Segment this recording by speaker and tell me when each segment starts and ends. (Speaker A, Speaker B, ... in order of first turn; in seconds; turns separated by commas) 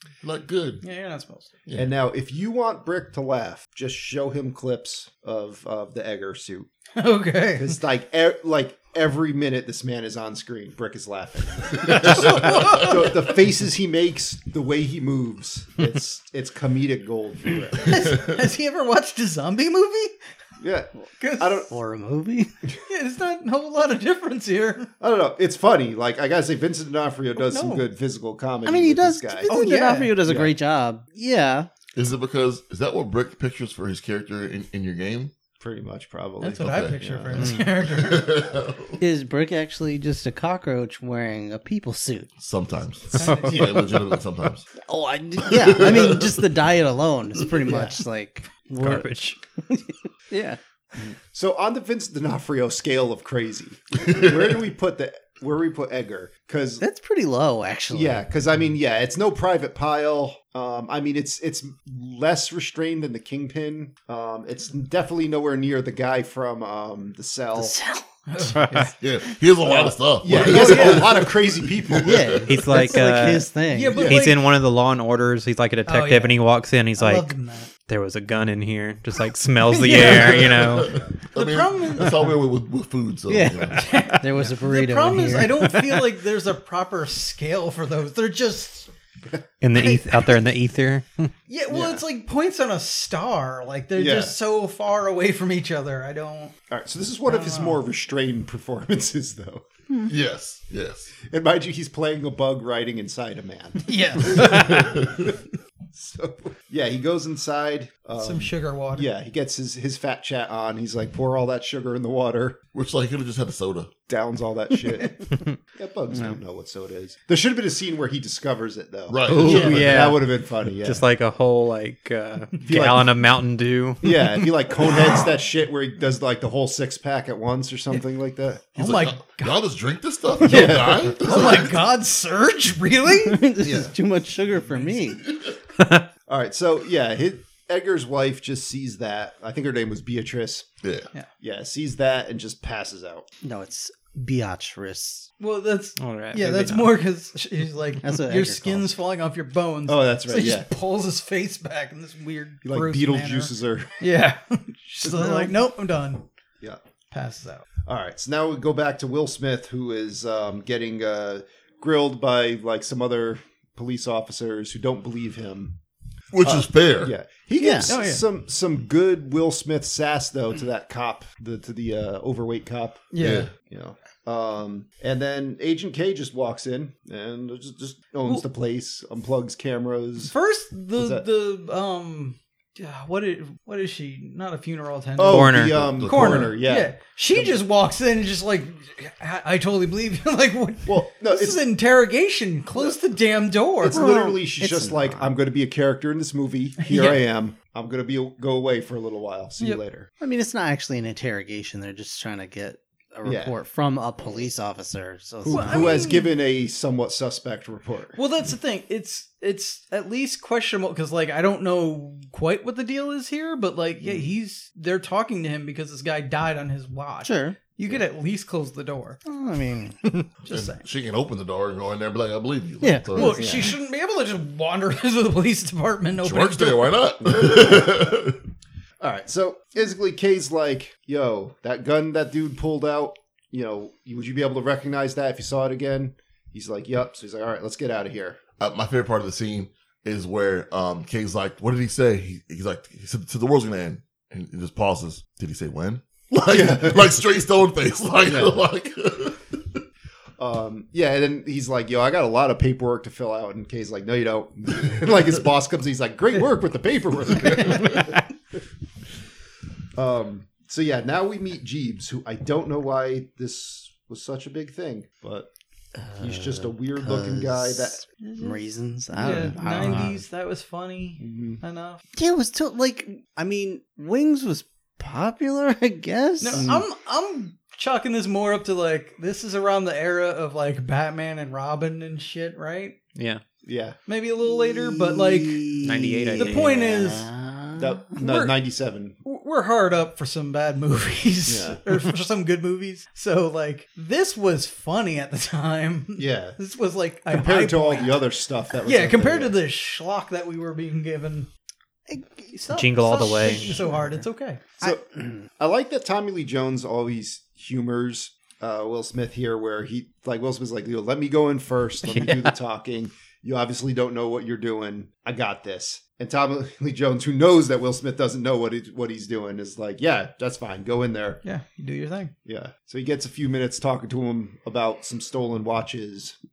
Speaker A: 0.2-0.8, Speaker B: 0.8-1.6, Speaker A: 1.6-1.9, Speaker C: 1.8-6.7, Speaker B: 7.0-7.8, Speaker C: 7.5-18.2, Speaker B: 11.8-13.2, Speaker A: 11.8-12.8, Speaker B: 17.8-20.1, Speaker C: 20.6-21.7, Speaker B: 21.2-21.7, Speaker D: 21.7-22.5, Speaker B: 22.9-24.9, Speaker C: 25.0-29.6, Speaker B: 27.4-27.9, Speaker D: 28.6-31.7, Speaker B: 29.5-30.2, Speaker C: 30.2-30.5, Speaker A: 31.9-35.3, Speaker C: 35.6-37.5, Speaker B: 36.4-38.5, Speaker A: 36.6-39.0, Speaker D: 39.0-42.3, Speaker A: 42.4-44.7, Speaker B: 43.1-43.7, Speaker D: 44.7-50.6, Speaker A: 45.5-46.3, Speaker C: 47.6-48.0, Speaker E: 48.8-49.4, Speaker C: 51.0-56.8, Speaker D: 56.8-58.3, Speaker C: 57.9-67.8, Speaker D: 67.5-68.0, Speaker B: 68.3-69.0, Speaker E: 68.5-68.9, Speaker A: 69.0-72.6, Speaker C: 69.6-72.4, Speaker B: 70.3-71.2, Speaker D: 72.0-74.1, Speaker E: 72.5-81.0, Speaker B: 73.7-74.4, Speaker C: 73.9-74.3, Speaker B: 75.8-76.4, Speaker B: 77.0-77.7, Speaker B: 79.7-80.5, Speaker A: 79.8-84.0, Speaker B: 81.3-82.4, Speaker D: 83.3-85.8, Speaker B: 83.8-88.9, Speaker E: 89.6-91.3, Speaker B: 89.7-90.4, Speaker B: 91.5-96.5, Speaker C: 91.7-92.0, Speaker C: 94.0-94.4, Speaker C: 96.7-99.6, Speaker B: 97.3-97.8, Speaker A: 100.0-101.1, Speaker C: 101.2-112.6, Speaker B: 103.8-105.0, Speaker A: 104.7-105.2, Speaker B: 108.2-109.1, Speaker A: 112.7-113.9, Speaker C: 114.1-121.0, Speaker A: 119.1-120.1, Speaker E: 119.3-124.4, Speaker B: 119.5-119.7, Speaker C: 122.7-123.2, Speaker C: 124.0-128.7, Speaker B: 128.7-129.6, Speaker A: 128.8-131.8, Speaker B: 130.4-133.5, Speaker C: 130.4-131.6, Speaker D: 133.2-135.2, Speaker C: 133.6-133.9, Speaker C: 136.3-140.7, Speaker A: 140.8-141.1, Speaker C: 141.4-143.2, Speaker D: 143.4-145.3, Speaker B: 145.4-156.3, Speaker E: 146.0-146.7, Speaker C: 146.3-146.9, Speaker D: 148.0-148.9, Speaker C: 149.9-150.7, Speaker C: 152.6-154.0, Speaker C: 155.1-155.5, Speaker B: 157.1-157.6, Speaker C: 157.8-165.8, Speaker A: 166.3-167.1, Speaker C: 166.4-180.3, Speaker D: 167.6-167.9, Speaker B: 167.8-168.2, Speaker B: 173.1-173.5, Speaker A: 173.2-173.5, Speaker B: 180.2-194.1, Speaker C: 180.9-181.2, Speaker C: 185.2-187.6, Speaker E: 185.2-186.1, Speaker A: 185.7-186.6, Speaker C: 190.8-191.6, Speaker C: 193.8-200.1, Speaker D: 193.9-195.3, Speaker B: 196.8-197.2, Speaker D: 200.2-206.1, Speaker C: 203.2-203.5, Speaker C: 205.4-208.2, Speaker B: 205.4-206.4, Speaker B: 208.1-219.2, Speaker C: 214.0-214.3, Speaker D: 217.2-217.6, Speaker D: 219.2-220.2, Speaker B: 220.4-220.8, Speaker A: 220.5-223.7, Speaker D: 222.8-223.5, Speaker B: 223.2-226.9, Speaker C: 223.2-223.7, Speaker A: 226.2-228.4, Speaker C: 227.2-228.1, Speaker C: 229.0-238.4, Speaker A: 238.6-249.8, Speaker C: 246.5-247.1, Speaker C: 248.2-248.6, Speaker C: 250.4-258.2, Speaker B: 257.5-258.1, Speaker C: 259.9-265.5, Speaker D: 265.9-270.2, Speaker C: 266.2-268.0, Speaker B: 268.2-268.6, Speaker B: 269.1-272.0, Speaker C: 269.2-270.0, Speaker C: 271.2-271.6, Speaker D: 272.1-276.8, Speaker B: 276.4-283.0, Speaker C: 276.5-276.8, Speaker E: 283.1-283.4, Speaker C: 283.6-284.0, Speaker B: 284.1-287.3, Speaker D: 284.4-288.0, Speaker E: 285.8-286.8, Speaker C: 287.8-289.2, Speaker B: 288.1-288.6, Speaker B: 289.2-298.2, Speaker C: 291.5-291.8, Speaker C: 296.2-296.6, Speaker C: 297.3-299.6, Speaker B: 298.8-301.5, Speaker D: 302.1-302.5, Speaker B: 302.5-304.9, Speaker E: 302.7-303.8, Speaker C: 304.8-321.4, Speaker E: 312.0-312.5, Speaker B: 321.4-322.3, Speaker C: 322.4-326.4